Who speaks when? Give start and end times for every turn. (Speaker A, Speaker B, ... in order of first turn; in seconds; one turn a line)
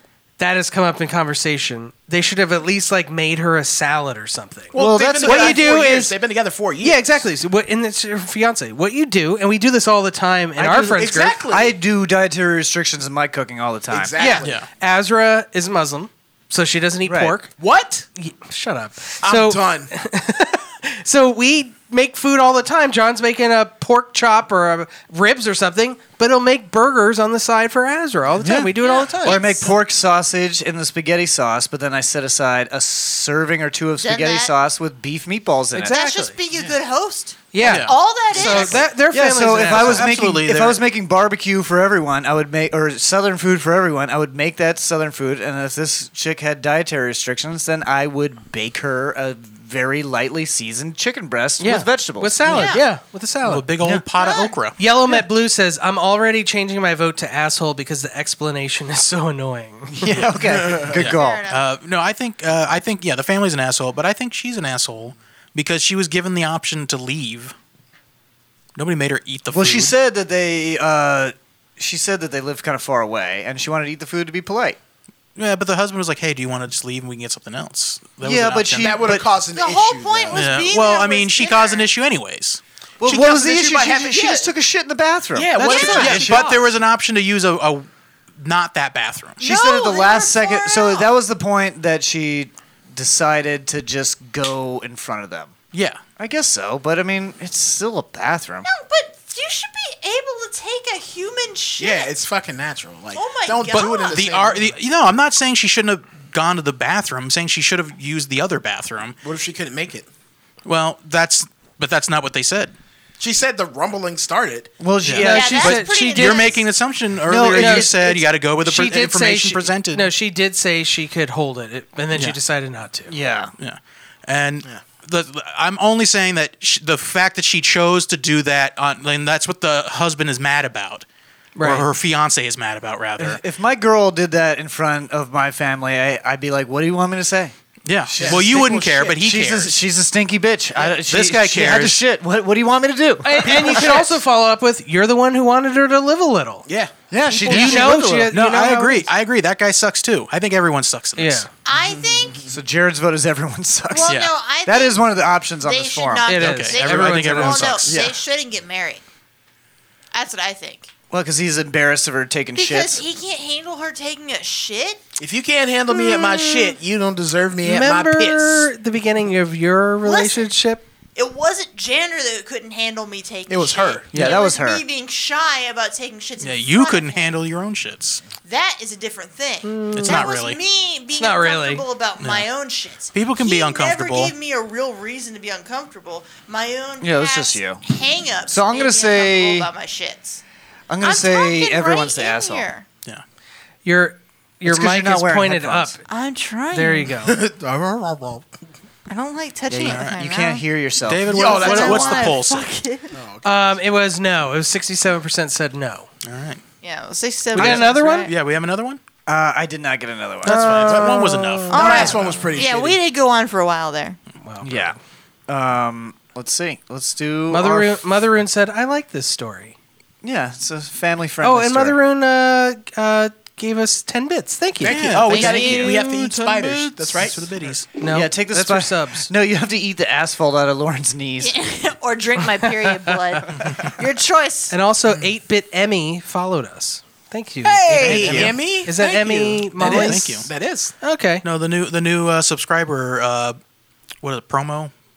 Speaker A: 0.4-6.2
Speaker B: 4.7-7.2
Speaker C: 4.7-5.6
Speaker A: 6.8-11.4
Speaker C: 10.6-14.2
Speaker B: 10.9-11.8
Speaker B: 13.9-14.6
Speaker A: 14.2-17.5
Speaker D: 14.4-14.7
Speaker C: 17.1-17.4
Speaker B: 17.6-18.1
Speaker A: 18.2-29.5
Speaker B: 19.2-19.9
Speaker C: 28.4-36.0
Speaker E: 28.8-29.7
Speaker E: 34.0-34.5
Speaker A: 35.8-36.4
Speaker E: 35.8-38.8
Speaker A: 37.5-40.1
Speaker D: 37.6-37.9
Speaker C: 38.4-52.7
Speaker D: 39.6-40.8
Speaker A: 51.6-53.7
Speaker E: 52.5-52.9
Speaker D: 53.5-54.8
Speaker E: 54.2-54.6
Speaker A: 54.8-60.2
Speaker C: 59.9-61.4
Speaker D: 60.0-67.5
Speaker E: 61.0-61.6
Speaker D: 68.8-69.9
Speaker C: 69.5-74.8
Speaker D: 75.4-79.1
Speaker C: 78.2-79.3
Speaker B: 78.8-80.5
Speaker E: 79.5-81.8
Speaker D: 80.3-82.6
Speaker B: 83.0-84.5
Speaker C: 83.0-86.4
Speaker B: 85.3-86.7
Speaker D: 85.6-87.9
Speaker E: 85.7-86.1
Speaker D: 88.4-89.4
Speaker E: 89.4-91.1
Speaker C: 89.4-95.5
Speaker D: 95.7-96.0
Speaker C: 96.2-98.7
Speaker E: 98.6-102.1
Speaker B: 101.8-104.7
Speaker E: 103.1-104.2
Speaker D: 103.7-109.2
Speaker B: 109.2-110.1
Speaker D: 110.7-112.8
Speaker B: 113.2-114.7
Speaker C: 114.8-115.8
Speaker D: 115.0-120.1
Speaker A: 115.1-116.5
Speaker E: 115.2-116.6
Speaker C: 117.2-118.3
Speaker A: 117.6-123.2
Speaker C: 123.1-123.5
Speaker D: 123.6-131.1
Speaker A: 131.6-131.9
Speaker D: 131.6-133.4
Speaker C: 133.2-144.1
Speaker D: 137.9-139.7
Speaker B: 138.2-139.2
Speaker D: 141.0-142.0
Speaker A: 143.2-146.7
Speaker B: 146.7-146.9
Speaker C: 147.1-148.4
Speaker A: 147.5-149.1
Speaker D: 147.5-151.5
Speaker A: 151.2-151.5
Speaker E: 151.6-152.4
Speaker B: 151.7-152.5
Speaker C: 152.5-158.2
Speaker E: 153.9-155.0
Speaker E: 155.6-159.0
Speaker A: 156.2-157.8
Speaker D: 156.4-157.9
Speaker E: 160.1-160.9
Speaker C: 161.1-163.0
Speaker E: 162.6-165.0
Speaker B: 165.2-168.7
Speaker A: 167.6-170.8
Speaker E: 170.0-170.5
Speaker E: 171.2-177.4
Speaker B: 173.5-174.1
Speaker C: 174.1-174.8
Speaker D: 176.4-178.2
Speaker E: 178.4-190.4
Speaker A: 179.6-180.3
Speaker D: 179.9-180.6
Speaker A: 181.2-181.8
Speaker D: 182.2-182.5
Speaker D: 183.1-184.3
Speaker C: 187.0-187.8
Speaker C: 188.5-189.7
Speaker C: 190.9-192.7
Speaker E: 191.0-192.8
Speaker A: 193.8-196.0
Speaker C: 194.7-196.0
Speaker E: 196.1-197.1
Speaker A: 196.7-197.4
Speaker B: 197.2-198.5
Speaker E: 199.1-200.7
Speaker C: 199.7-202.2
Speaker D: 199.8-200.2
Speaker D: 201.0-202.7
Speaker B: 201.3-202.2
Speaker E: 201.4-203.2
Speaker B: 203.1-203.8
Speaker A: 203.4-206.1
Speaker D: 206.2-206.6
Speaker E: 206.8-208.3
Speaker A: 207.6-208.3
Speaker D: 207.6-209.0
Speaker C: 209.3-211.1
Speaker D: 210.4-211.8
Speaker A: 210.5-211.9
Speaker B: 210.9-213.0
Speaker E: 211.7-214.2
Speaker C: 211.7-212.5
Speaker A: 214.4-214.9
Speaker C: 214.6-215.0
Speaker C: 215.5-218.0
Speaker A: 217.5-219.8
Speaker C: 220.2-222.0
Speaker A: 221.4-225.7
Speaker B: 224.8-227.8
Speaker D: 224.8-225.5
Speaker E: 225.2-227.2
Speaker C: 225.5-225.9
Speaker D: 227.2-227.9
Speaker A: 228.0-229.3
Speaker C: 228.1-231.5
Speaker E: 231.4-234.7
Speaker A: 232.7-233.4
Speaker A: 234.7-240.5
Speaker E: 237.7-238.3
Speaker B: 237.9-241.0
Speaker C: 237.9-238.6
Speaker D: 239.8-240.5
Speaker A: 241.0-241.4
Speaker D: 241.4-243.6
Speaker D: 244.2-244.9